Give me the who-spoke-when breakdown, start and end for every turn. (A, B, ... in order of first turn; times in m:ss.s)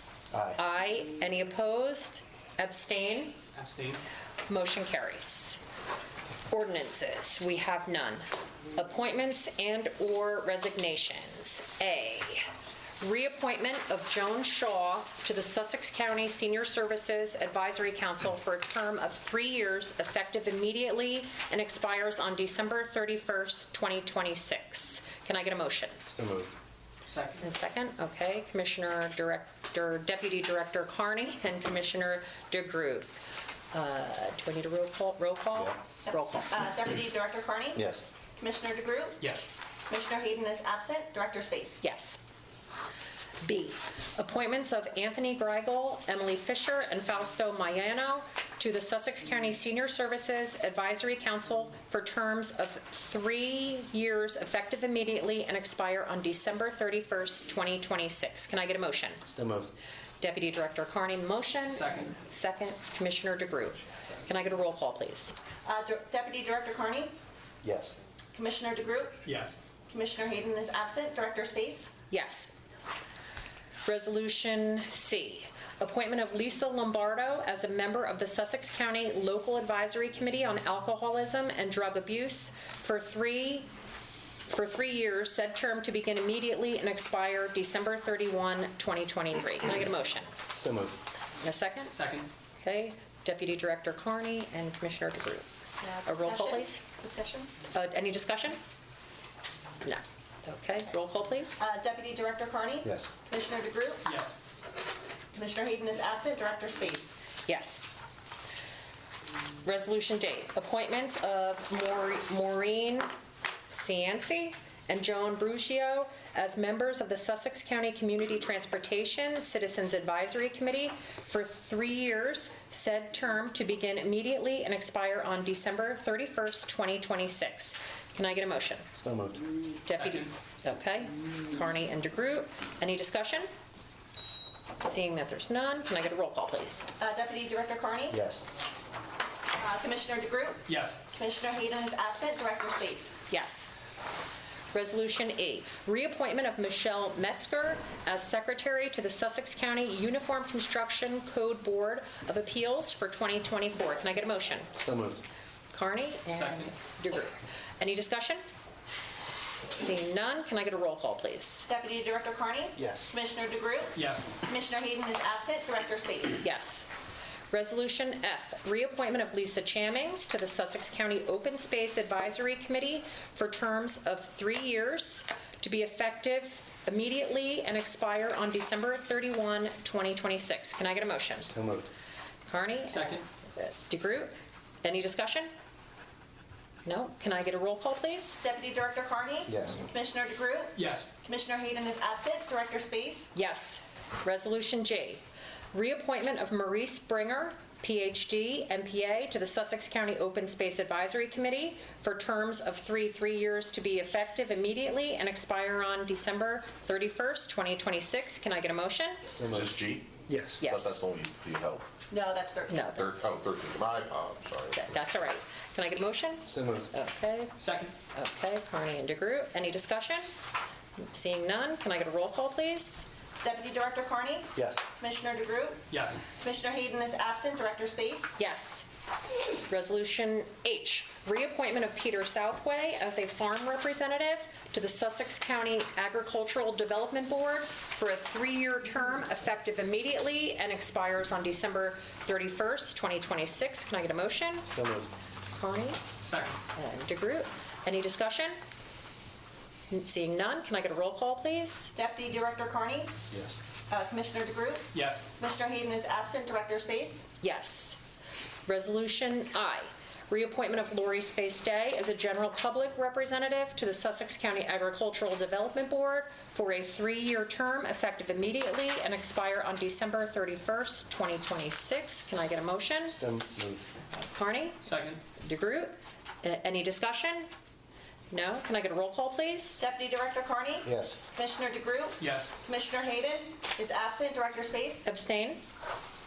0:00.3-0:00.6 A
0:00.5-0:03.4 B
0:03.5-0:04.0 C
0:04.5-0:05.6 B
0:06.5-0:12.4 B
0:13.0-0:26.0 B
0:26.1-0:26.5 A
0:27.0-0:27.4 C
0:27.4-0:33.1 B
0:33.7-0:36.7 B
0:36.0-0:37.8 D
0:37.7-0:38.0 A
0:38.4-0:39.3 D
0:39.2-0:39.4 C
0:39.9-0:41.8 D
0:41.8-0:42.2 B
0:43.4-0:59.2 B
0:59.2-0:59.7 A
1:00.2-1:05.4 B
1:01.7-1:02.1 C
1:05.6-1:07.1 D
1:07.6-1:07.9 A
1:08.3-1:09.2 D
1:09.2-1:09.6 C
1:09.9-1:11.9 D
1:12.1-1:12.5 B
1:13.8-1:23.7 B
1:24.5-1:30.3 B
1:30.5-1:31.0 A
1:31.4-1:31.9 B
1:31.9-1:32.3 C
1:32.6-1:35.4 B
1:35.8-1:37.5 D
1:36.0-1:36.8 B
1:37.7-1:38.6 B
1:39.8-1:41.6 B
1:41.6-1:44.1 D
1:42.8-1:43.1 A
1:44.0-1:44.4 C
1:45.3-1:47.1 D
1:47.5-1:47.8 B
1:49.6-1:53.1 B
1:53.7-2:08.8 B
2:08.9-2:09.4 A
2:09.8-2:13.5 B
2:09.9-2:10.3 C
2:14.8-2:16.9 B
2:17.0-2:18.2 D
2:18.1-2:18.4 A
2:19.5-2:23.1 D
2:20.7-2:21.0 C
2:23.3-2:23.7 B
2:24.7-2:34.7 B
2:34.8-2:35.2 A
2:35.7-2:38.4 B
2:36.3-2:36.7 C
2:39.7-2:41.7 B
2:41.7-2:46.4 D
2:42.8-2:43.1 A
2:43.9-2:44.3 C
2:46.4-2:46.9 B
2:47.5-3:01.5 B
3:01.5-3:01.9 A
3:02.5-3:04.3 B
3:02.9-3:03.2 C
3:04.8-3:05.5 B
3:06.8-3:08.4 B
3:08.4-3:13.3 D
3:09.5-3:09.8 A
3:10.7-3:11.1 C
3:13.3-3:15.2 B
3:15.7-3:29.2 B
3:29.3-3:30.6 A
3:29.5-3:31.9 E
3:30.6-3:31.0 B
3:32.1-3:33.0 D
3:32.7-3:33.1 B
3:32.9-3:35.0 E
3:34.8-3:37.6 B
3:36.4-3:36.9 A
3:37.6-3:37.9 C
3:38.1-3:40.3 B
3:41.1-3:43.1 B
3:43.4-3:48.3 D
3:44.5-3:44.8 A
3:45.9-3:46.2 C
3:48.4-3:48.8 B
3:49.7-4:04.7 B
4:04.6-4:05.1 A
4:05.6-4:06.0 B
4:06.2-4:06.6 C
4:06.7-4:08.6 B
4:09.9-4:11.9 B
4:11.9-4:13.1 D
4:13.3-4:13.6 A
4:13.9-4:17.2 D
4:14.9-4:15.2 C
4:17.4-4:18.0 B
4:18.6-4:33.2 B
4:33.1-4:33.8 A
4:34.1-4:34.8 B
4:34.8-4:35.2 C
4:35.4-4:37.5 B
4:38.3-4:39.8 B
4:39.8-4:45.0 D
4:40.8-4:41.2 A
4:42.2-4:42.5 C
4:45.0-4:45.6 B